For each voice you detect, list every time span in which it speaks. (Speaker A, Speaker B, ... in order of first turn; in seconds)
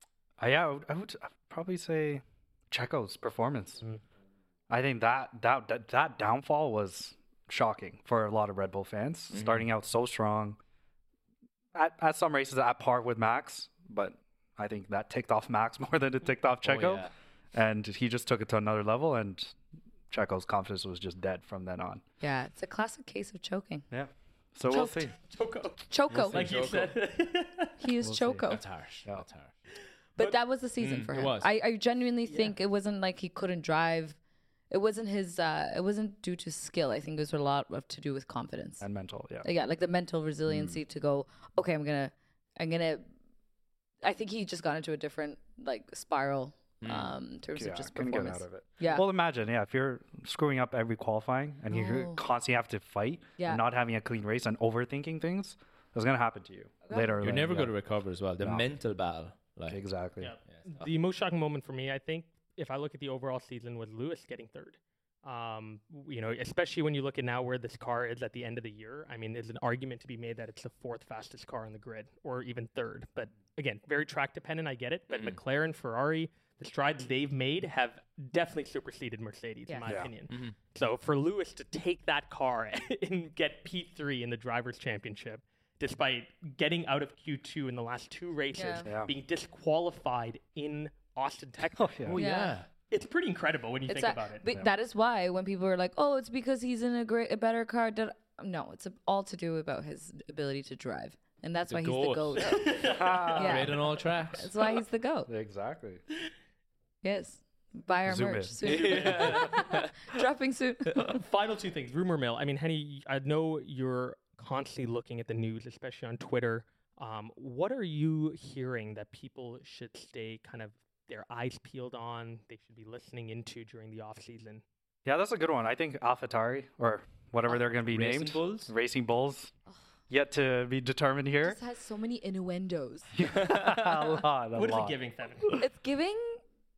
Speaker A: 0.4-3.8, 4.7-10.6, 11.7-19.6, 20.1-22.0, 23.9-25.1, 28.0-28.5, 38.8-39.5, 47.5-57.7, 58.4-58.6, 59.7-60.3, 88.8-89.1, 91.8-92.2, 102.8-103.7, 105.3-106.0, 108.0-108.7, 125.0-129.5, 130.1-131.6, 133.1-135.6
Speaker B: 9.3-9.7, 16.6-17.1, 26.1-27.0, 28.4-29.5, 30.8-31.5, 46.8-47.1, 57.2-59.8, 60.5-60.9, 75.1-75.4, 92.0-92.7, 101.7-102.6, 103.3-104.5, 108.6-109.9, 127.5-128.7, 133.4-133.7
Speaker C: 22.2-23.9, 24.7-25.1, 25.9-26.5, 27.8-28.6, 30.2-34.2, 34.7-38.8, 39.4-43.1, 44.0-49.1, 51.7-52.2, 53.4-53.6, 56.9-57.2, 79.7-80.0, 88.5-88.9, 92.2-92.6, 93.9-102.8, 103.3-105.3, 107.0-111.2, 131.4-133.2, 135.6-136.4
Speaker D: 24.7-27.8, 32.2-32.5, 60.2-92.2, 92.9-94.4, 102.4-103.7, 108.7-109.6, 111.0-124.6, 134.5-135.6